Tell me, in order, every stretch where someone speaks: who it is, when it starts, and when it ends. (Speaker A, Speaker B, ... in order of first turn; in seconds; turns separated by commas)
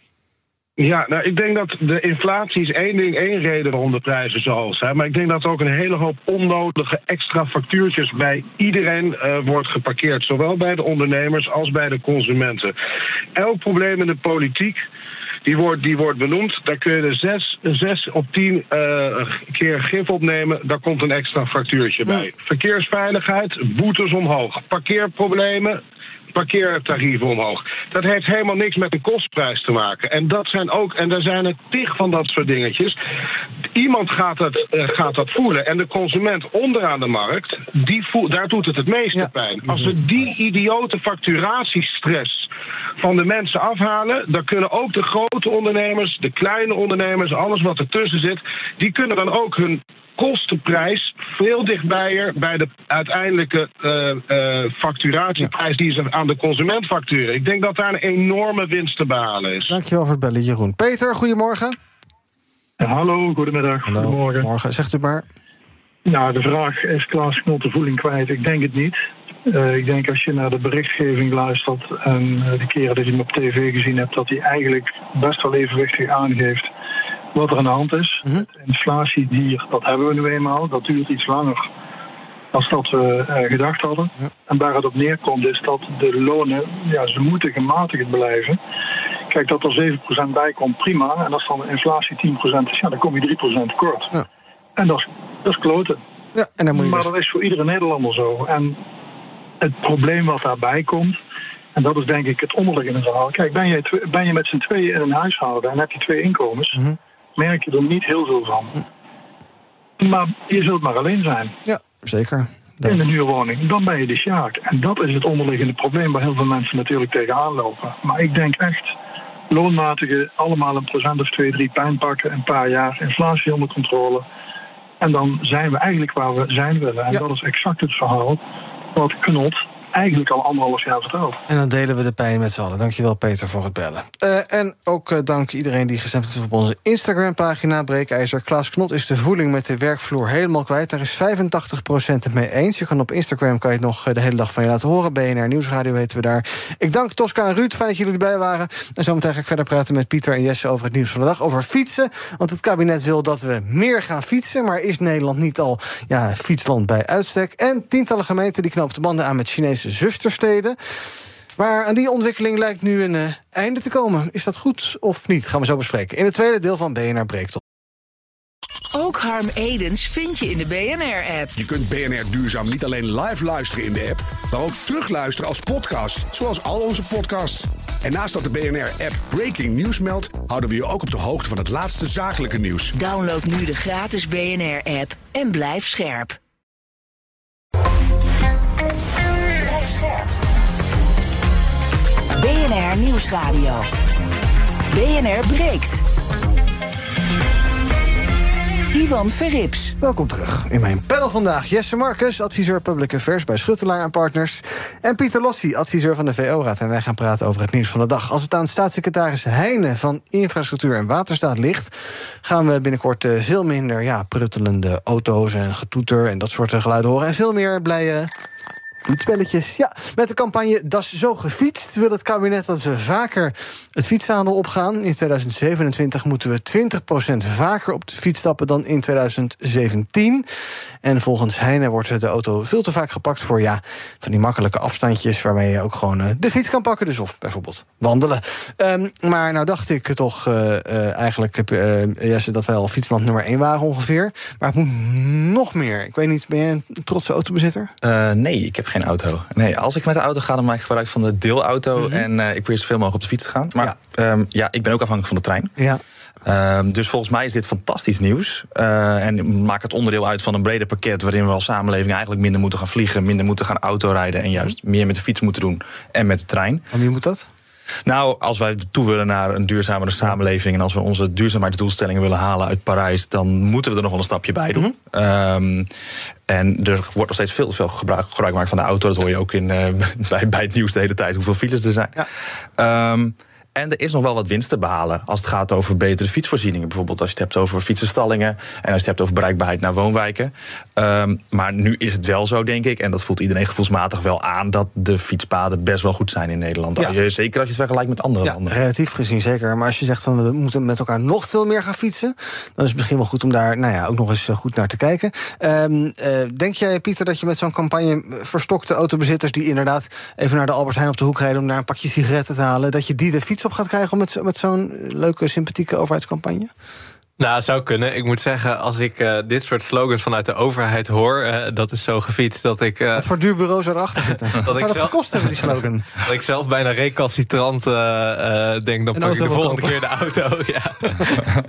Speaker A: 0.8-12.7, Speaker A: 13.3-14.8, Speaker A: 15.4-25.8, Speaker A: 26.3-33.0, Speaker A: 33.7-42.5, Speaker B: 39.1-40.0, Speaker A: 43.0-59.7, Speaker B: 59.7-61.8, Speaker C: 62.8-64.5, Speaker B: 63.9-65.2, Speaker C: 66.0-76.7, Speaker C: 77.3-81.7, Speaker C: 82.5-88.6, Speaker C: 89.3-94.1, Speaker C: 94.8-96.0, Speaker B: 96.3-97.1, Speaker C: 96.7-98.8, Speaker C: 99.6-101.2, Speaker C: 101.7-106.8, Speaker C: 107.3-108.8, Speaker C: 110.0-111.5, Speaker B: 111.7-113.0, Speaker C: 112.8-118.9, Speaker C: 119.5-124.2, Speaker C: 125.0-128.4, Speaker C: 128.9-131.4, Speaker B: 131.5-160.8, Speaker B: 161.6-167.6, Speaker D: 168.9-171.5, Speaker E: 171.6-182.9, Speaker D: 182.9-186.4, Speaker D: 189.6-190.3, Speaker D: 192.3-193.8, Speaker D: 194.9-196.0, Speaker D: 198.9-199.9, Speaker B: 200.0-211.9, Speaker B: 212.4-218.3, Speaker B: 219.0-230.4, Speaker B: 231.0-247.9, Speaker F: 248.0-255.7, Speaker B: 252.0-252.2, Speaker F: 256.4-266.9, Speaker B: 266.9-267.4, Speaker F: 268.1-275.9, Speaker F: 276.5-282.2, Speaker F: 282.8-298.7, Speaker B: 298.4-316.7, Speaker G: 317.4-323.2, Speaker B: 323.1-326.1, Speaker G: 324.6-325.6, Speaker G: 326.2-331.4, Speaker B: 329.1-330.0